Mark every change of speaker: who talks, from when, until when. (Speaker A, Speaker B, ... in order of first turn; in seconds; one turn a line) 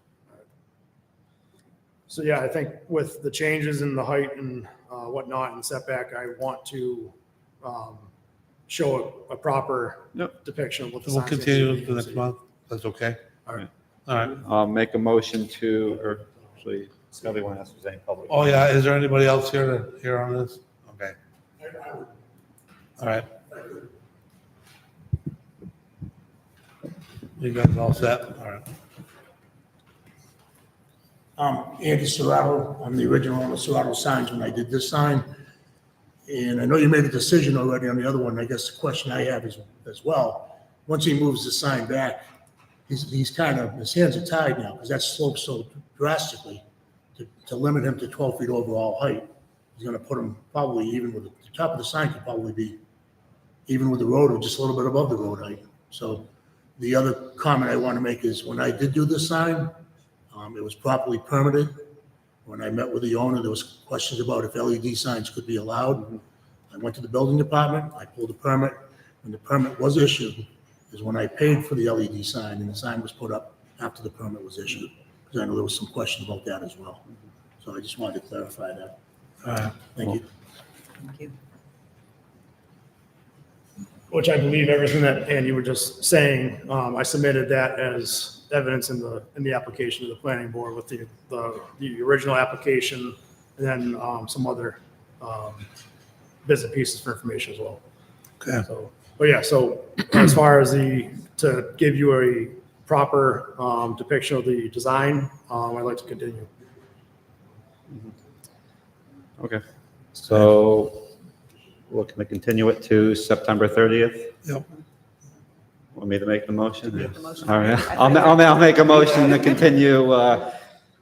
Speaker A: 2.1-8.1
Speaker A: 8.7-12.3
Speaker B: 11.1-13.2
Speaker B: 14.1-14.4
Speaker C: 14.3-18.5
Speaker B: 18.3-21.2
Speaker B: 23.0-23.3
Speaker B: 27.4-28.6
Speaker D: 31.4-35.3
Speaker D: 36.3-42.2
Speaker D: 42.9-46.6
Speaker D: 47.2-52.8
Speaker D: 53.7-59.8
Speaker D: 60.3-61.9
Speaker D: 62.5-66.2
Speaker D: 66.7-77.0
Speaker D: 77.6-79.0
Speaker D: 79.5-80.2
Speaker A: 84.1-95.7
Speaker A: 96.5-97.8
Speaker B: 98.4-98.7
Speaker A: 98.7-106.5
Speaker C: 110.1-111.1
Speaker C: 111.9-114.3
Speaker C: 115.9-120.5